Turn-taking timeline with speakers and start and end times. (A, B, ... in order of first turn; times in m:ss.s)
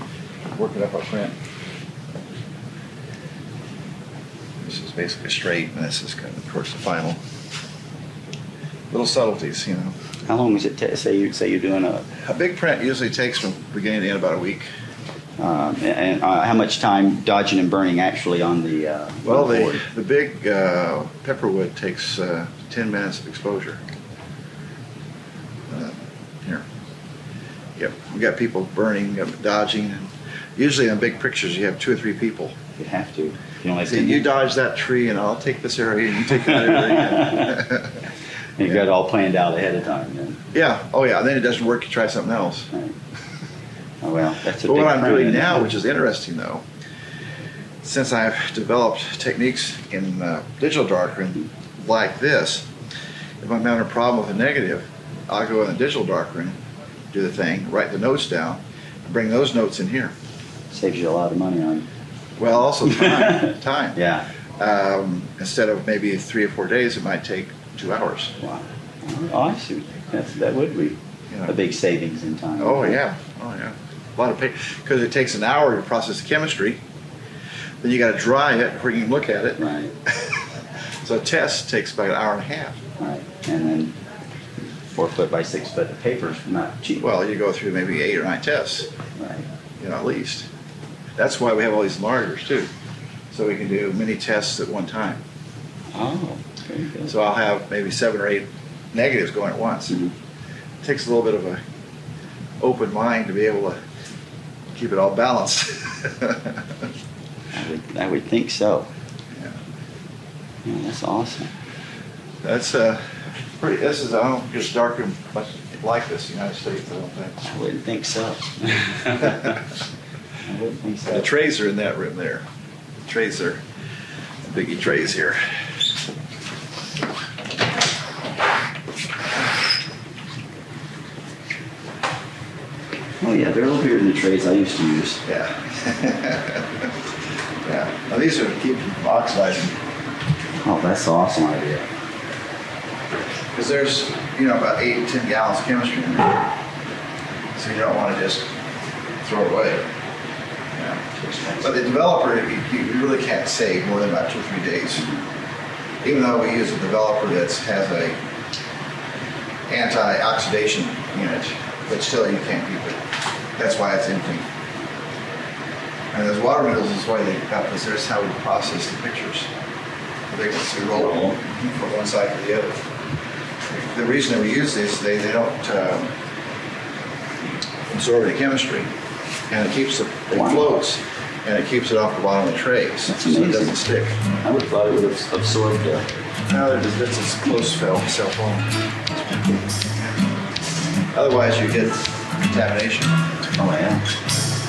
0:00.5-0:01.4 A
0:04.6-0:07.2 A
0:08.9-0:10.0 A
0:10.3-0:12.1 B
0:12.3-0:14.7 A
0:15.4-0:19.8 B
0:19.2-0:23.8 A
0:25.7-0:26.6 A
0:27.8-0:32.6 A
0:32.8-0:34.3 B
0:33.9-0:38.0 A
0:36.3-0:37.6 B
0:38.6-0:40.4 B
0:40.5-0:42.7 A
0:44.0-0:45.7 B
0:44.6-0:46.6 A
0:47.8-0:52.7 A
0:53.4-0:56.6 A
0:57.1-1:00.1 A
1:00.7-1:01.9 B
1:02.4-1:04.0 A
1:02.8-1:04.2 B
1:04.6-1:08.3 A
1:08.4-1:13.0 B
1:11.3-1:11.6 A
1:12.6-1:16.8 A
1:17.8-1:19.6 A
1:19.6-1:19.9 B
1:21.0-1:22.8 A
1:23.0-1:24.0 B
1:24.9-1:27.1 B
1:27.0-1:28.9 A
1:29.2-1:29.5 B
1:29.8-1:30.5 A
1:31.2-1:32.7 A
1:33.3-1:35.2 A
1:35.9-1:37.2 B
1:37.1-1:40.0 A
1:39.9-1:40.1 B
1:40.8-1:41.6 A
1:42.6-1:43.8 A
1:44.7-1:46.6 A
1:47.5-1:48.9 B
1:50.6-1:51.5 B
1:52.4-1:53.0 A
1:53.6-1:57.4 A
1:57.4-1:59.6 B
2:00.4-2:01.3 B
2:01.1-2:02.4 A
2:03.1-2:03.6 A
2:04.4-2:05.4 A
2:13.2-2:15.2 B
2:15.2-2:16.7 A
2:17.6-2:19.8 A
2:20.6-2:21.9 B
2:23.6-2:26.4 A
2:27.6-2:28.5 A
2:29.2-2:29.9 A
2:30.8-2:31.0 A
2:31.2-2:31.8 B
2:31.6-2:35.1 A
2:35.0-2:35.2 B
2:36.0-2:38.2 A
2:39.7-2:43.0 A
2:43.6-2:44.5 A
2:46.1-2:49.5 A
2:50.3-2:52.8 A
2:50.9-2:51.4 B
2:53.8-2:56.1 A
2:57.9-2:58.9 A
2:59.5-3:04.2 A
3:00.3-3:00.8 B
3:03.1-3:03.8 B
3:04.4-3:06.1 B
3:06.5-3:08.7 A
3:11.1-3:13.2 A
3:13.6-3:14.0 B